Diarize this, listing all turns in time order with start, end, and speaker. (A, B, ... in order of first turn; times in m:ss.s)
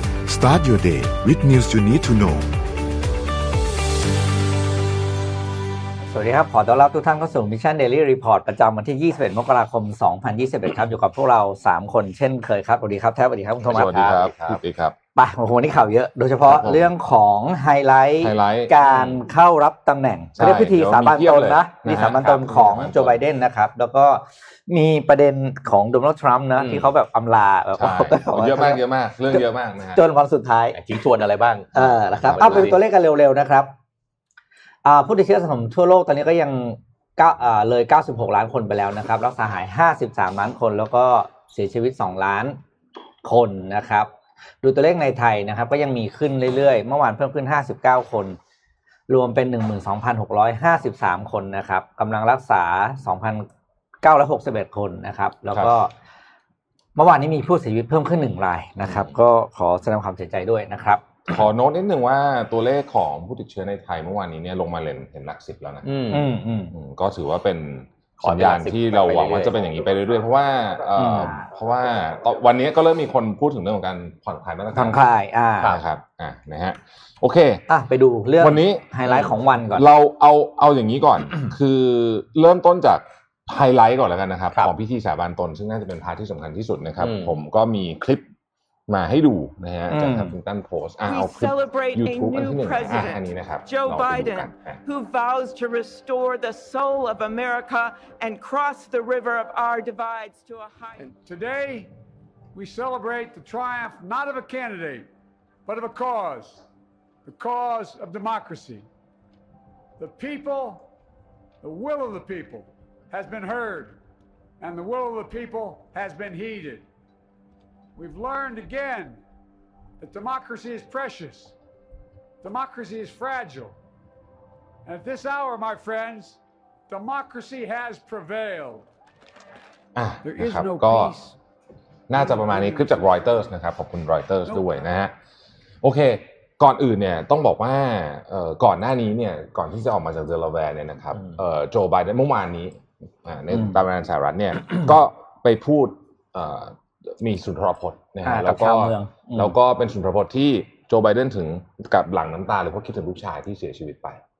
0:00.2-0:02.5 A
0:06.1-0:14.4 B
0:13.6-0:14.9 C
0:15.1-0:28.8 B
0:16.4-0:16.9 C
0:18.2-0:18.7 C
0:20.4-0:23.2 C
0:26.6-0:26.8 D
0:27.7-0:30.0 C
0:29.9-0:30.8 B
0:30.7-0:32.8 D
0:31.7-0:33.7 B
0:32.4-0:32.7 C
0:34.8-0:42.6 B
0:43.2-0:44.1 B
0:44.6-0:48.4 B
0:49.1-0:53.5 B
0:54.0-0:55.9 B
0:57.0-1:01.0 B
1:01.3-1:15.0 C
1:05.8-1:06.3 D
1:06.1-1:06.7 B
1:08.2-1:09.6 D
1:11.0-1:11.4 B
1:14.7-1:15.7 B
1:15.6-1:17.6 C
1:17.7-1:19.8 B
1:18.4-1:28.3 C
1:27.0-1:27.3 D
1:28.9-1:34.8 C
1:29.9-1:30.3 B
1:31.0-1:41.1 E
1:41.0-1:41.9 F
1:42.5-1:45.1 F
1:45.6-1:46.6 F
1:47.2-1:48.8 F
1:50.0-1:50.9 F
1:51.6-1:54.0 F
1:54.6-1:56.9 F
1:58.0-1:59.2 F
2:00.0-2:01.5 F
2:02.4-2:03.8 F
2:04.8-2:08.9 F
2:10.0-2:11.2 C
2:10.2-2:11.3 F
2:12.1-2:15.1 C
2:12.2-2:12.9 F
2:15.8-2:34.2 C
2:23.5-2:23.8 B
2:28.2-2:29.5 B